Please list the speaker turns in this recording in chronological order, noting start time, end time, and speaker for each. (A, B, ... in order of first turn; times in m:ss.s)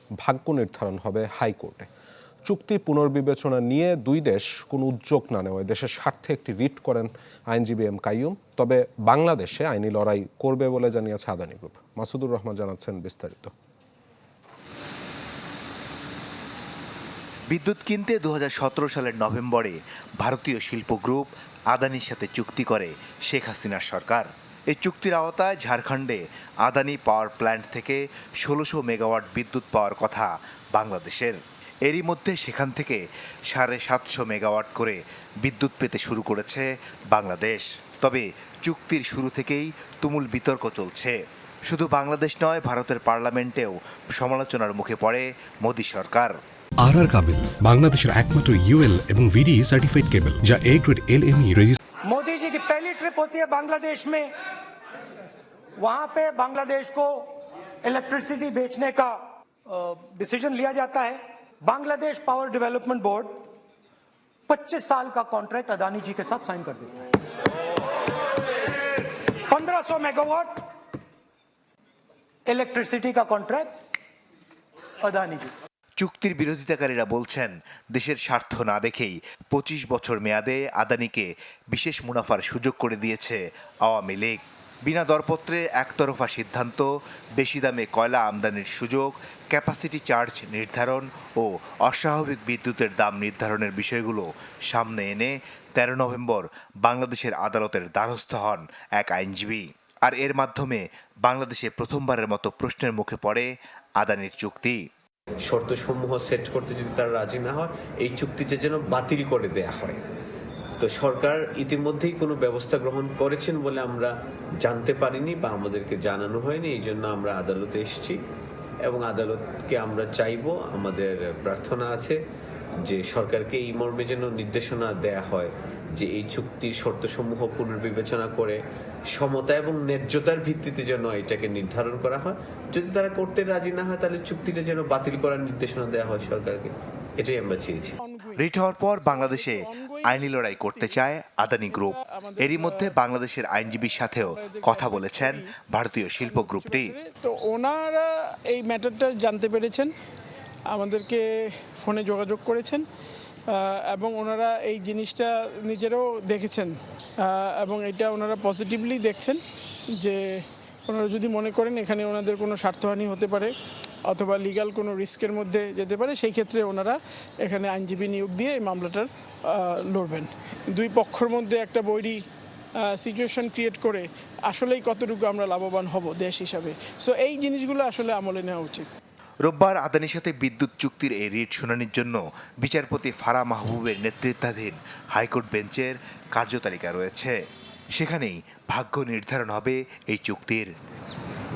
0:00.2-0:01.9 A
0:02.5-0:13.5 A
0:17.5-0:46.4 B
0:46.8-0:51.8 C
0:52.1-0:54.3 D
0:55.8-1:03.5 D
1:04.5-1:07.1 D
1:09.1-1:10.6 D
1:12.4-1:13.8 D
1:15.0-1:15.5 D
1:16.0-1:44.8 B
1:45.4-1:50.0 E
1:50.8-1:58.2 E
1:58.8-2:02.2 E
2:02.8-2:08.6 E
2:09.1-2:17.9 E
2:18.0-2:18.4 F
2:18.4-2:27.0 B
2:19.0-2:20.9 F
2:21.7-2:22.9 F
2:24.2-2:25.5 F
2:26.3-2:29.9 F
2:30.7-2:32.8 F
2:33.5-2:39.4 F
2:39.9-2:43.5 F
2:44.0-2:52.2 F
2:52.8-2:58.9 F
2:59.4-3:07.3 B
3:07.9-3:10.7 B